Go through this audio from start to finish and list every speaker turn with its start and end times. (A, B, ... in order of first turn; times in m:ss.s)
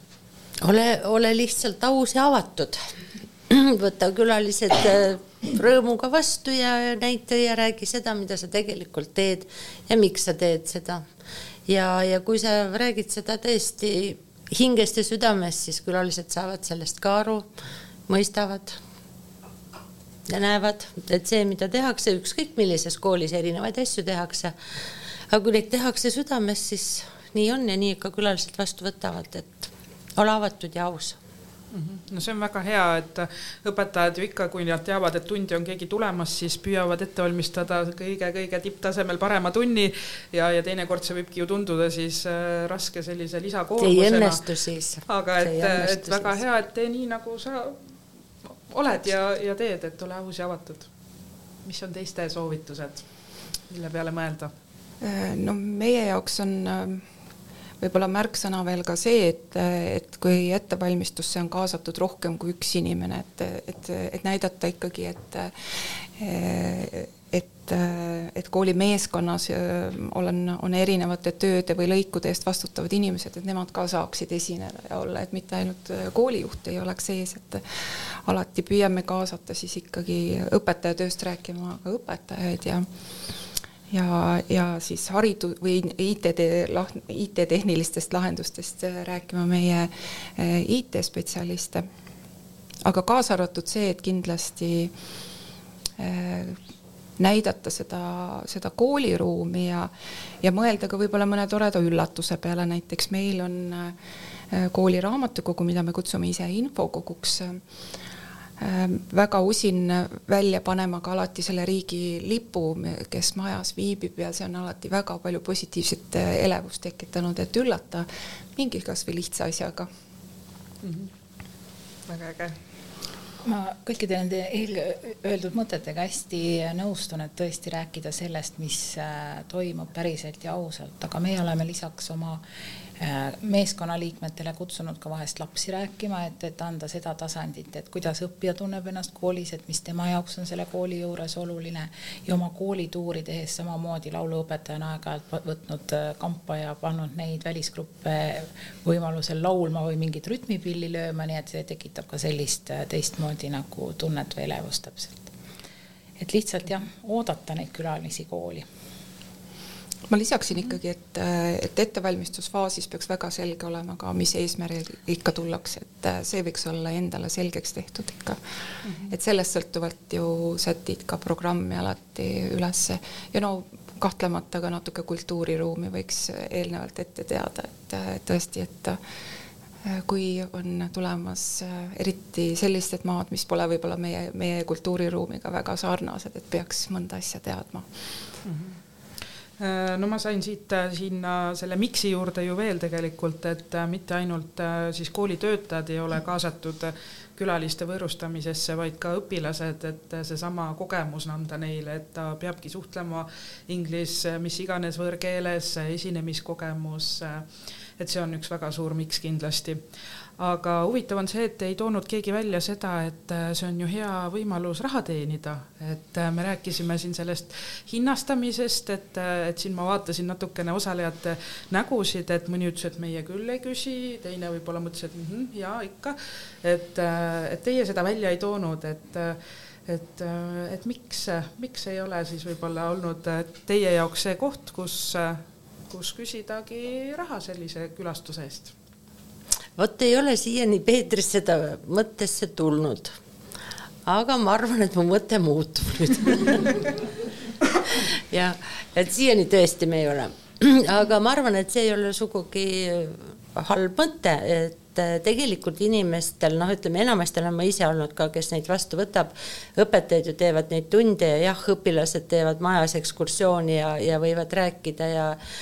0:00.6-0:02.8 A
0:03.5-0:11.0 A
0:11.7-0:17.5 A
0:18.1-0:18.8 A
0:20.3-0:24.5 A
0:25.3-0:31.2 A
0:31.7-0:44.4 B
0:43.8-0:46.4 A
0:45.0-0:47.8 B
0:48.7-0:50.9 B
0:51.6-0:53.0 B
0:53.7-0:54.5 B
0:55.0-0:57.0 C
0:57.8-1:05.5 C
1:06.2-1:22.9 C
1:23.9-1:31.8 C
1:32.8-1:34.9 C
1:36.0-1:36.6 C
1:37.2-1:39.9 C
1:40.4-1:43.9 C
1:44.5-1:47.6 C
1:48.6-1:59.9 C
2:00.8-2:01.1 B
2:02.1-2:02.6 B
2:03.4-2:12.4 D
2:13.0-2:35.3 D
2:36.2-2:38.6 D
2:40.1-2:48.4 C
2:48.8-2:49.1 B
2:49.0-2:59.0 C
2:59.8-3:07.9 C
3:08.4-3:08.8 B
3:09.6-3:29.8 B
3:30.4-3:58.7 B
3:59.8-4:03.2 A
4:04.0-4:07.0 A
4:07.8-4:25.4 A